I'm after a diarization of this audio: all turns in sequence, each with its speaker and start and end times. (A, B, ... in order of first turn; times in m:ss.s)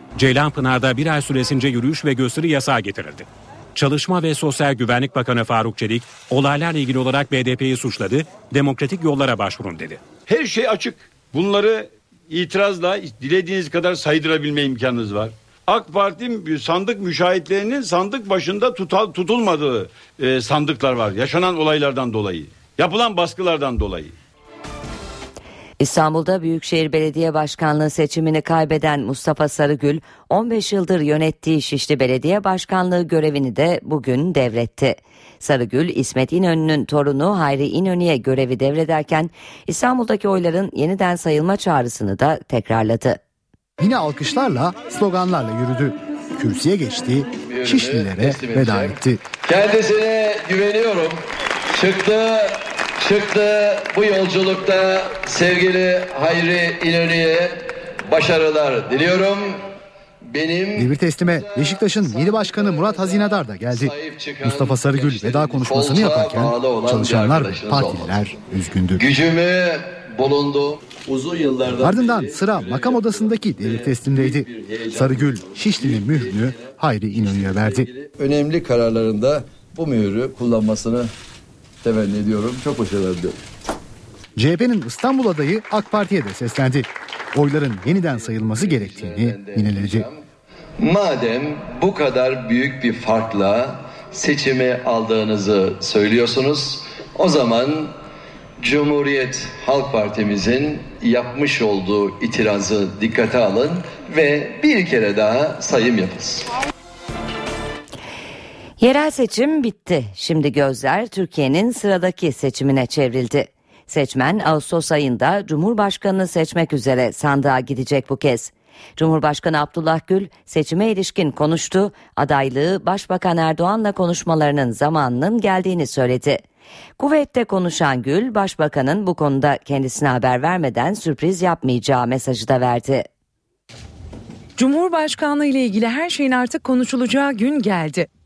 0:00.2-0:10.0 A
0:10.3-0:24.2 B
0:25.8-0:43.2 C
0:43.8-0:49.2 D
0:47.4-0:51.2 E
0:51.7-0:59.7 E
1:00.3-1:08.2 E
1:00.8-1:09.1 D
1:08.9-1:21.1 E
1:11.7-1:17.9 D
1:21.8-1:23.3 E
1:24.4-1:30.1 D
1:28.5-1:30.2 E
1:30.8-1:38.0 E
1:38.6-1:46.5 E
1:48.8-2:06.4 C
2:07.0-2:13.1 C
2:14.6-2:18.1 F